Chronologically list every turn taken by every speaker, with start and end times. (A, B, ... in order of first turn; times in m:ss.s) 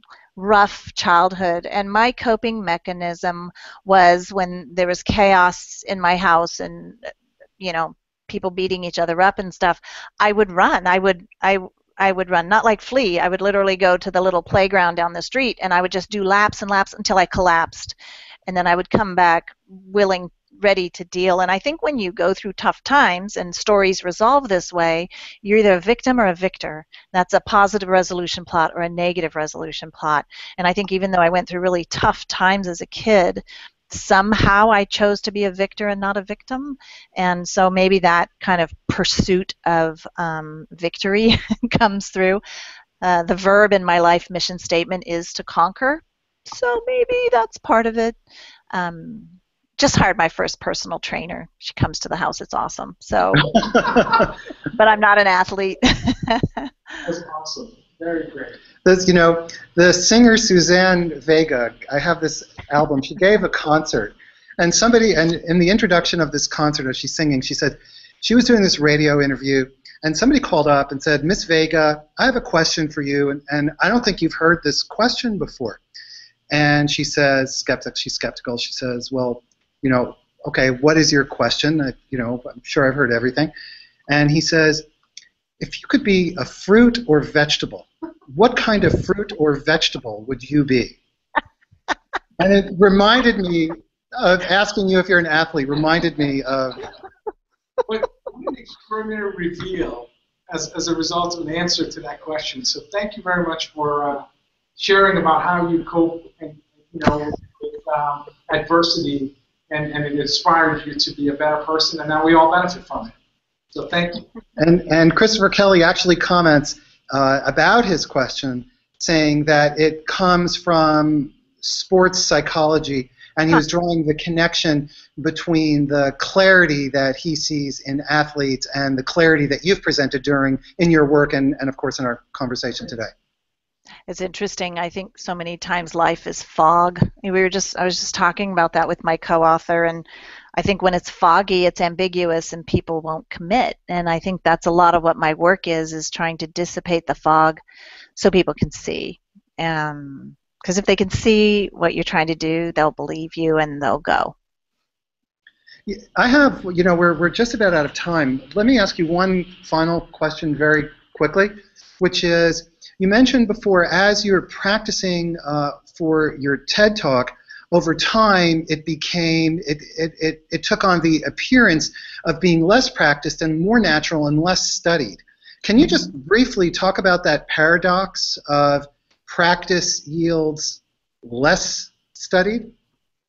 0:00.4-0:18.0 A
0:18.5-0:42.4 A
0:43.0-0:48.2 A
0:48.7-0:53.6 A
0:53.4-0:54.3 B
0:54.7-0:56.7 A
0:57.0-0:58.6 C
0:58.8-1:15.8 B
1:16.5-1:23.5 B
1:24.1-1:24.9 B
1:25.6-1:31.0 B
1:32.4-1:36.8 B
1:37.9-1:44.2 C
1:44.8-1:53.1 C
1:53.7-1:54.2 C
1:54.6-2:13.1 B
2:14.1-2:27.6 A
2:28.2-2:34.4 A
2:35.9-3:02.7 B